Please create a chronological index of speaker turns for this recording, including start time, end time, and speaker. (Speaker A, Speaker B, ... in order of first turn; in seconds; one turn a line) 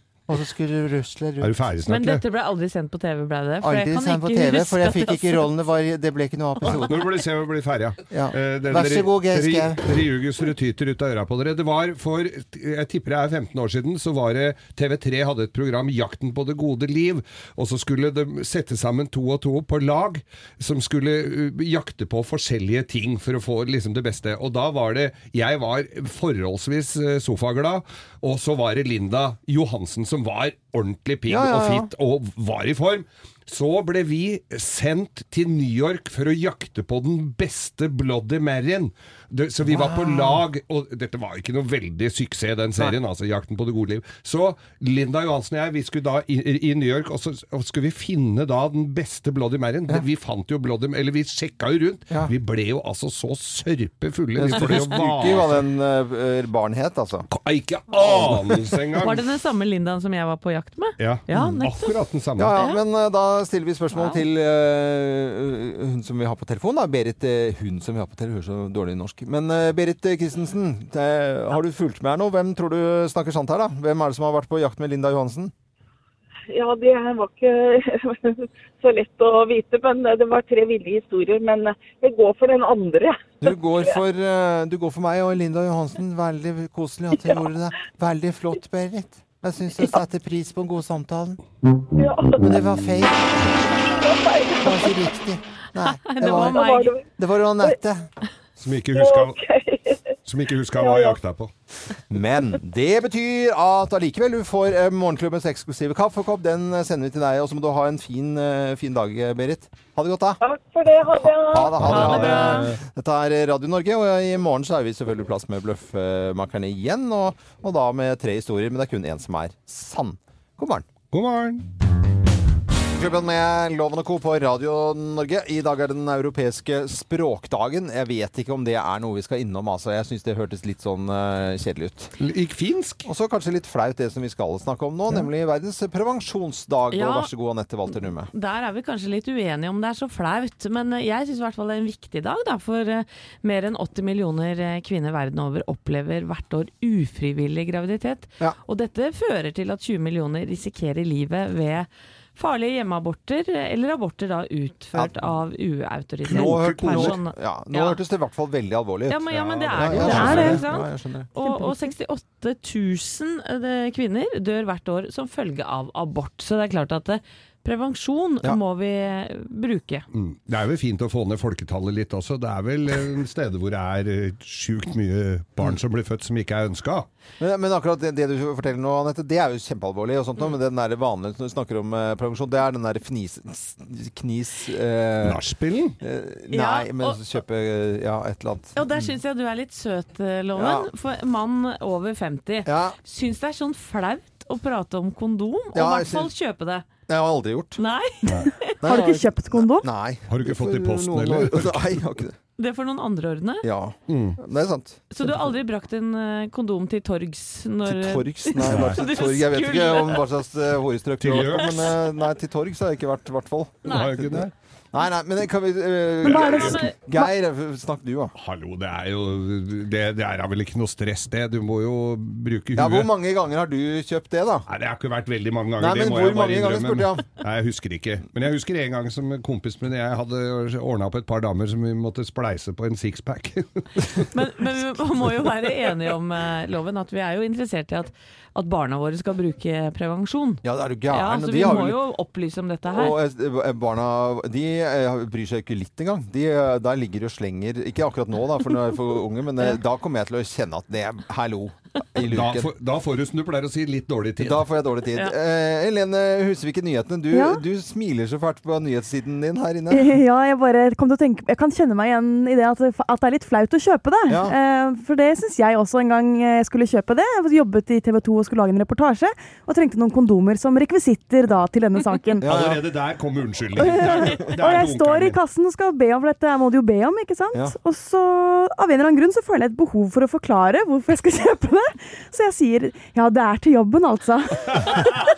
Speaker A: 0.3-1.5
Speaker B: 1.4-2.2
Speaker C: 1.9-5.5
Speaker A: 3.6-7.0
Speaker B: 6.6-55.6
Speaker A: 8.1-10.0
Speaker A: 31.3-31.9
Speaker A: 39.6-40.4
Speaker A: 54.4-57.3
Speaker B: 57.3-59.2
Speaker A: 58.0-58.5
Speaker C: 59.0-61.9
Speaker B: 61.0-62.5
Speaker A: 62.4-75.5
Speaker C: 63.9-64.2
Speaker D: 76.5-84.0
Speaker A: 83.4-91.4
Speaker D: 87.1-87.5
Speaker D: 91.9-92.6
Speaker A: 92.4-93.5
Speaker D: 93.5-95.1
Speaker A: 94.6-96.6
Speaker C: 95.8-96.9
Speaker D: 96.2-97.8
Speaker A: 97.2-98.1
Speaker B: 98.6-99.4
Speaker D: 98.9-100.0
Speaker B: 100.2-101.5
Speaker D: 100.7-101.2
Speaker A: 102.1-110.4
Speaker D: 110.4-111.9
Speaker A: 111.2-120.9
Speaker B: 111.7-112.8
Speaker C: 111.8-112.7
Speaker B: 121.1-121.6
Speaker A: 123.0-132.1
Speaker B: 132.2-133.0
Speaker A: 133.0-138.3
Speaker C: 136.9-137.3
Speaker C: 138.3-158.0
Speaker A: 154.9-155.3
Speaker A: 156.2-161.3
Speaker B: 156.3-157.2
Speaker C: 159.1-170.0
Speaker B: 159.3-160.6
Speaker E: 160.2-160.5
Speaker E: 161.4-161.9
Speaker B: 170.1-177.1
Speaker A: 177.4-185.4
Speaker B: 185.2-185.9
Speaker A: 186.0-189.1
Speaker C: 186.5-187.2
Speaker C: 188.8-196.8
Speaker A: 190.5-190.9
Speaker A: 192.7-192.9
Speaker A: 195.7-196.3
Speaker A: 197.1-197.8
Speaker C: 197.8-198.7
Speaker A: 198.8-202.3
Speaker E: 198.8-199.9
Speaker B: 200.3-202.0
Speaker C: 202.6-203.7
Speaker A: 203.6-205.5
Speaker B: 204.1-204.4
Speaker C: 205.1-210.2
Speaker A: 207.8-218.3
Speaker B: 208.6-209.0
Speaker B: 211.2-211.9
Speaker C: 213.8-214.1
Speaker B: 213.8-214.5
Speaker B: 216.2-216.8
Speaker C: 216.3-216.9
Speaker E: 216.3-216.7
Speaker B: 218.4-223.1
Speaker A: 222.7-224.7
Speaker B: 224.7-234.2
Speaker A: 225.8-227.3
Speaker C: 234.3-243.2
Speaker A: 240.6-242.0
Speaker A: 242.9-252.7
Speaker B: 252.2-254.6
Speaker A: 254.4-260.1
Speaker E: 257.3-257.6
Speaker E: 259.9-272.4
Speaker A: 264.3-264.5
Speaker A: 272.4-272.9
Speaker B: 272.4-275.4
Speaker E: 273.8-285.2
Speaker A: 273.8-274.5